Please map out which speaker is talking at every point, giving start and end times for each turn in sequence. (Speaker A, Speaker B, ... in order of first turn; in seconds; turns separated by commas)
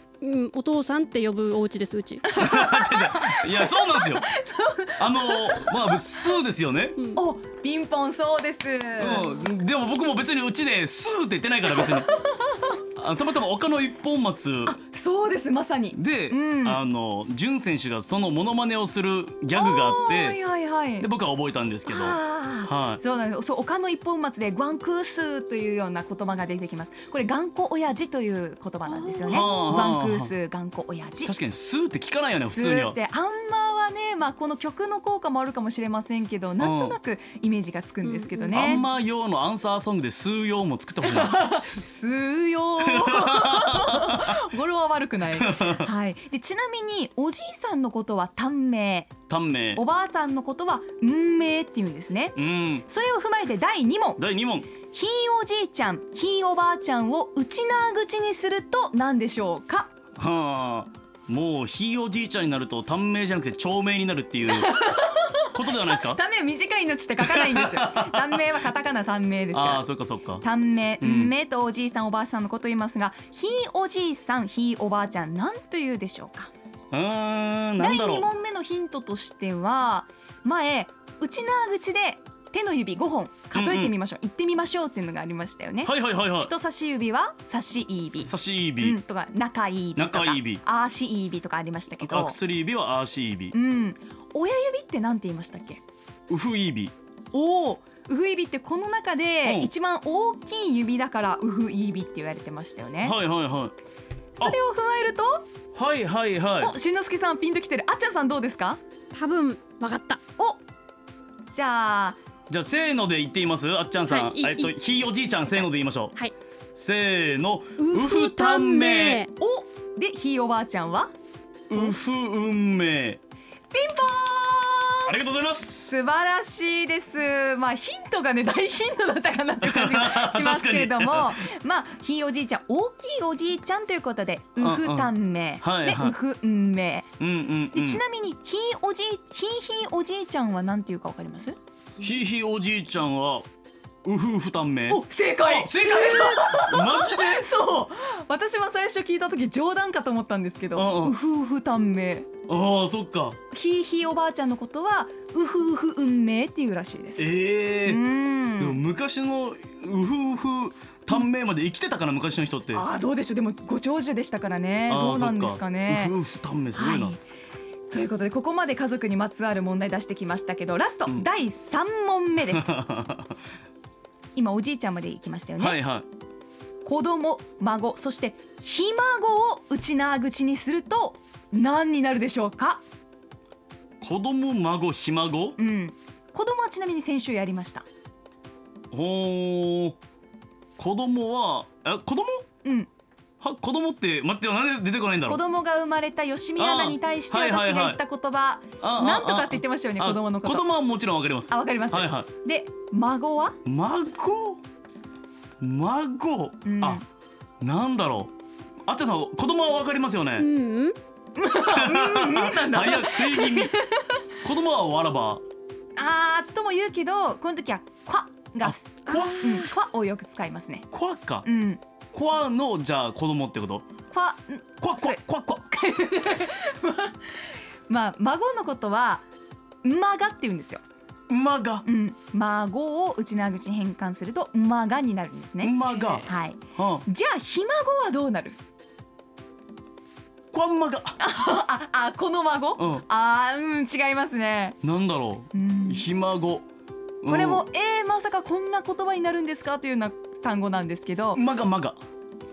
Speaker A: 0.2-2.3, Speaker B: 2.2-6.3, Speaker C: 2.3-4.3, Speaker C: 5.0-7.0, Speaker B: 7.2-9.3, Speaker C: 9.0-12.1, Speaker B: 11.8-12.8, Speaker C: 13.0-14.8, Speaker B: 14.7-16.8, Speaker C: 15.9-20.4, Speaker B: 19.6-21.1, Speaker C: 21.0-23.0, Speaker B: 21.9-31.3, Speaker A: 28.9-29.8, Speaker C: 29.3-30.3, Speaker C: 31.3-33.0, Speaker B: 32.4-38.8, Speaker C: 36.6-37.0, Speaker A: 38.0-38.6, Speaker C: 38.5-41.5, Speaker B: 41.0-49.1, Speaker C: 42.8-44.4, Speaker C: 45.3-45.9, Speaker C: 49.3-49.8, Speaker B: 49.8-54.2, Speaker C: 52.4-52.9, Speaker C: 54.2-54.7, Speaker B: 54.9-59.9, Speaker C: 60.2-64.8, Speaker B: 64.5-69.8, Speaker C: 65.5-66.2, Speaker C: 67.2-68.5, Speaker C: 69.5-70.5, Speaker B: 70.4-76.5, Speaker C: 71.0-71.3, Speaker C: 76.9-78.3, Speaker B: 77.8-92.4, Speaker C: 83.5-83.9, Speaker C: 85.8-86.5, Speaker C: 88.3-89.0, Speaker C: 90.0-90.6, Speaker C: 92.0-93.6, Speaker B: 93.5-95.8, Speaker C: 96.3-96.9, Speaker B: 97.3-103.2, Speaker C: 99.4-99.7, Speaker C: 103.0-103.7, Speaker B: 104.4-105.5, Speaker C: 105.7-106.7, Speaker B: 106.6-108.8, Speaker A: 109.1-110.2, Speaker B: 111.5-112.2, Speaker C: 112.5-116.2, Speaker A: 114.1-114.7, Speaker C: 116.8-119.3, Speaker A: 117.8-119.3, Speaker B: 119.3-121.1, Speaker C: 121.7-123.2, Speaker B: 123.7-125.1, Speaker C: 125.1-125.9, Speaker B: 125.8-137.1, Speaker C: 129.6-131.4, Speaker C: 134.6-136.2, Speaker C: 137.2-138.0, Speaker B: 137.7-141.6, Speaker C: 142.0-143.5, Speaker C: 144.0-147.5, Speaker B: 144.9-152.3, Speaker C: 150.7-151.2, Speaker C: 152.5-153.4, Speaker B: 153.5-157.3, Speaker C: 157.2-158.0, Speaker B: 157.8-158.8, Speaker C: 158.6-162.9, Speaker B: 162.7-166.2, Speaker C: 164.9-167.2, Speaker B: 166.7-167.2, Speaker B: 167.9-172.7, Speaker C: 172.5-173.3, Speaker B: 174.3-175.8, Speaker C: 175.6-176.1, Speaker B: 176.8-182.8, Speaker C: 184.0-185.6, Speaker B: 185.6-187.9, Speaker C: 188.9-190.0, Speaker C: 190.8-192.5, Speaker B: 192.6-192.9, Speaker C: 193.4-195.4, Speaker B: 195.3-200.7, Speaker C: 196.6-198.0, Speaker C: 198.8-202.3, Speaker B: 201.5-203.6, Speaker C: 203.7-204.6, Speaker C: 205.6-207.1, Speaker B: 206.7-207.1, Speaker C: 207.6-208.3, Speaker C: 208.9-210.5, Speaker A: 210.4-211.0, Speaker B: 211.4-214.2, Speaker C: 211.7-213.8, Speaker C: 214.4-215.4, Speaker B: 216.0-220.9, Speaker C: 218.6-219.7, Speaker C: 220.9-221.5, Speaker B: 221.4-221.8, Speaker C: 222.1-223.9, Speaker B: 224.1-229.3, Speaker C: 224.8-225.7, Speaker B: 229.8-230.8, Speaker C: 231.3-231.9, Speaker B: 231.8-238.6, Speaker C: 235.6-237.1, Speaker C: 240.5-241.2, Speaker B: 241.2-244.8, Speaker C: 242.8-243.1, Speaker C: 244.8-246.7, Speaker B: 245.5-246.1, Speaker C: 247.2-247.6, Speaker B: 247.3-251.4, Speaker C: 251.3-252.0